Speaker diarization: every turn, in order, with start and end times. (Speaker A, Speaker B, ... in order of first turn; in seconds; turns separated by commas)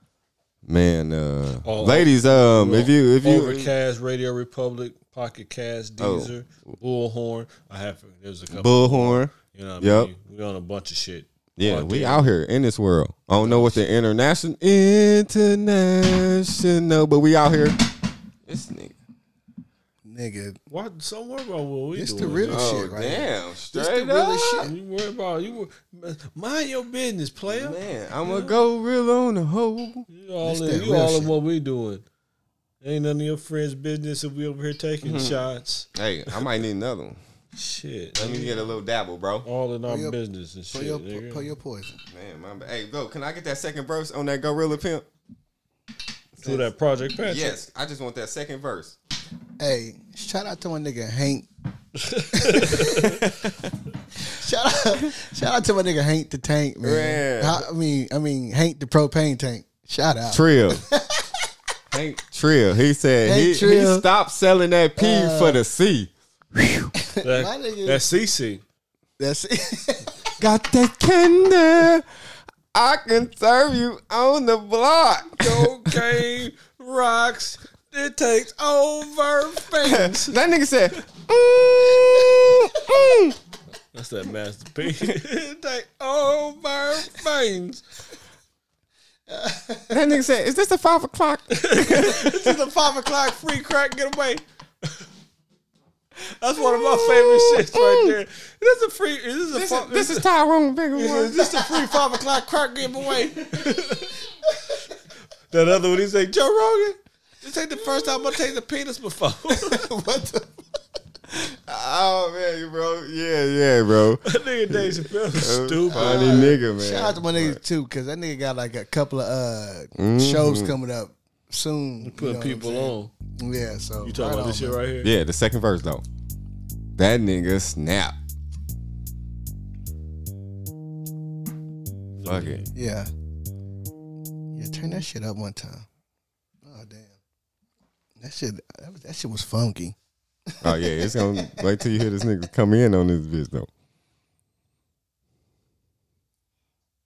Speaker A: 0.7-3.7, Speaker B: 1.6-12.3, Speaker A: 6.0-6.8, Speaker A: 8.5-10.1, Speaker A: 11.6-17.8, Speaker B: 13.4-13.8, Speaker A: 18.4-18.9, Speaker C: 20.1-20.6, Speaker B: 20.7-22.7, Speaker C: 21.9-24.7, Speaker A: 22.5-24.7, Speaker B: 24.6-28.6, Speaker A: 27.5-30.1, Speaker B: 30.1-32.0, Speaker C: 30.4-31.3, Speaker B: 32.8-35.9, Speaker A: 35.0-37.2, Speaker B: 37.5-38.6, Speaker A: 38.2-39.5, Speaker B: 39.4-41.5, Speaker C: 39.9-40.2, Speaker C: 40.7-42.0, Speaker A: 42.1-45.1, Speaker B: 46.4-47.6, Speaker A: 47.2-49.0, Speaker C: 49.6-51.5, Speaker B: 52.0-53.2, Speaker C: 52.3-53.2, Speaker C: 54.2-61.3, Speaker A: 56.8-57.7, Speaker A: 60.3-60.8, Speaker A: 61.9-66.9, Speaker C: 63.2-64.0, Speaker C: 65.0-65.6, Speaker C: 67.0-68.1, Speaker B: 67.2-68.6, Speaker C: 69.2-70.1, Speaker A: 70.4-72.1, Speaker A: 72.7-76.0, Speaker B: 75.3-80.4, Speaker A: 79.8-83.4, Speaker B: 83.9-87.8, Speaker C: 89.3-90.0, Speaker A: 89.9-92.6, Speaker B: 91.5-95.0, Speaker B: 96.4-100.2, Speaker A: 96.6-98.2, Speaker A: 99.5-101.5, Speaker B: 100.9-104.2, Speaker B: 105.5-109.9, Speaker C: 109.5-110.5, Speaker A: 111.3-117.6, Speaker B: 114.3-116.6, Speaker C: 115.9-124.8, Speaker A: 120.0-120.7, Speaker B: 122.0-123.1, Speaker B: 124.0-125.1, Speaker A: 125.0-126.0, Speaker A: 127.0-128.1, Speaker B: 132.2-132.7, Speaker A: 132.2-132.6, Speaker C: 132.8-133.1, Speaker C: 134.6-135.9, Speaker C: 136.6-137.2, Speaker C: 138.2-139.9, Speaker C: 140.5-141.7, Speaker A: 140.6-143.7